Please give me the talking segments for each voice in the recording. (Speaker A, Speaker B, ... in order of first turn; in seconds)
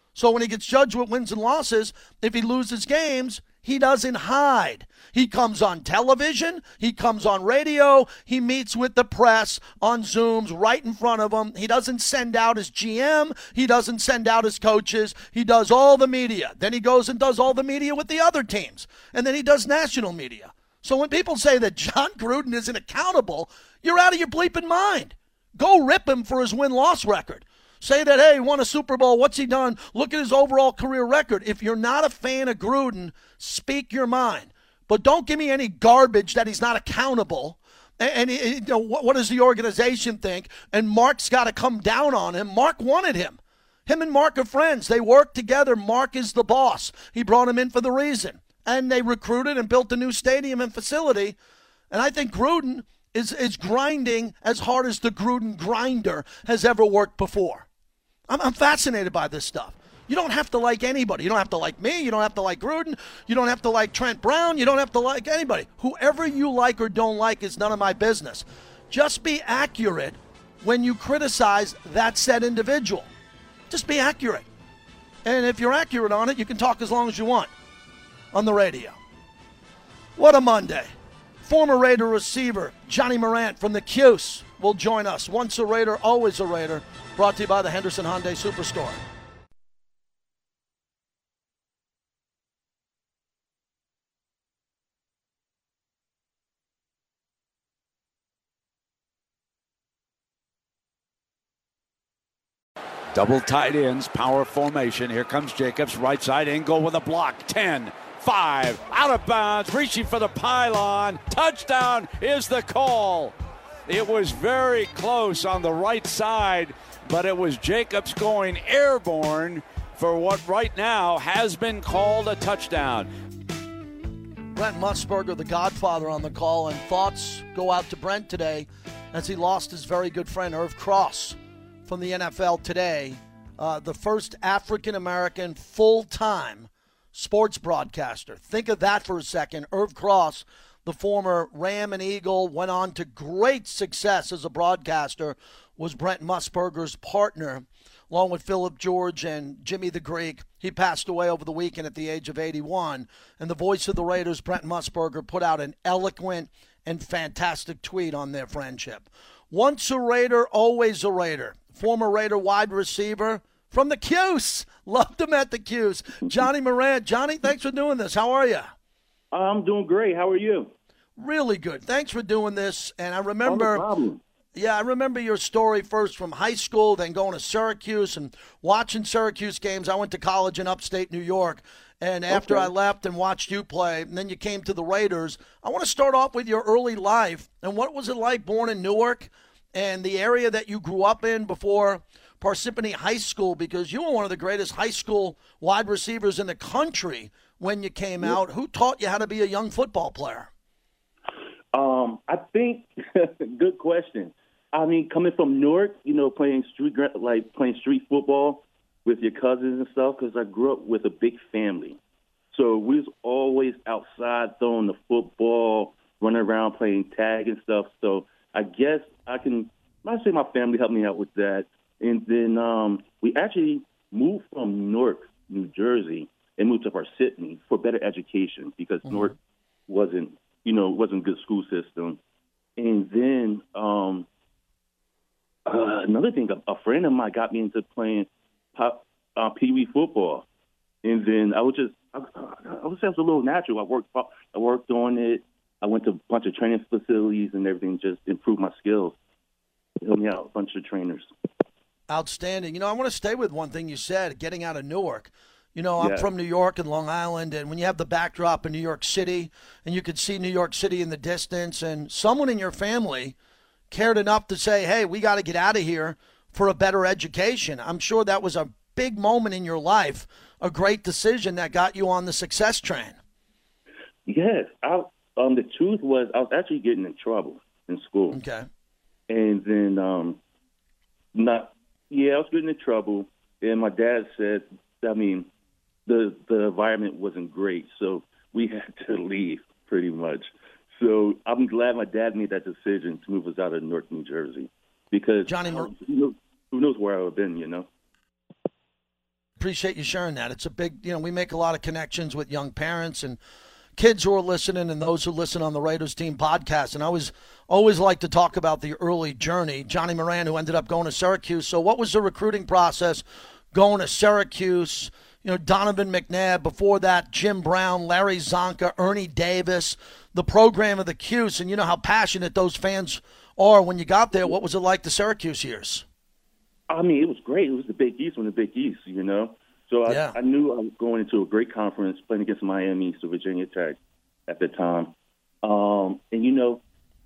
Speaker A: 0.1-51.4, 51.9-57.7, 58.3-73.1, 73.7-74.5, 75.2-77.5, 78.3-79.0, 80.2-80.9, 81.4-89.0, 124.5-168.7, 171.2-173.8, 174.6-200.5, 229.1-229.3, 252.1-263.4, 263.9-273.2, 278.3-278.7, 295.5-295.9, 299.6-303.4, 304.0-326.1, 330.1-330.4
Speaker B: 103.1-113.3, 113.9-123.1
Speaker C: 169.3-170.7, 173.5-174.2, 182.3-182.7, 201.7-212.0, 212.5-229.4, 229.9-232.2, 232.8-234.3, 235.7-240.4, 241.0-249.2, 250.0-251.3, 256.0-256.3, 274.3-278.4, 279.3-280.4, 281.3-285.5, 286.1-297.9, 326.9-336.8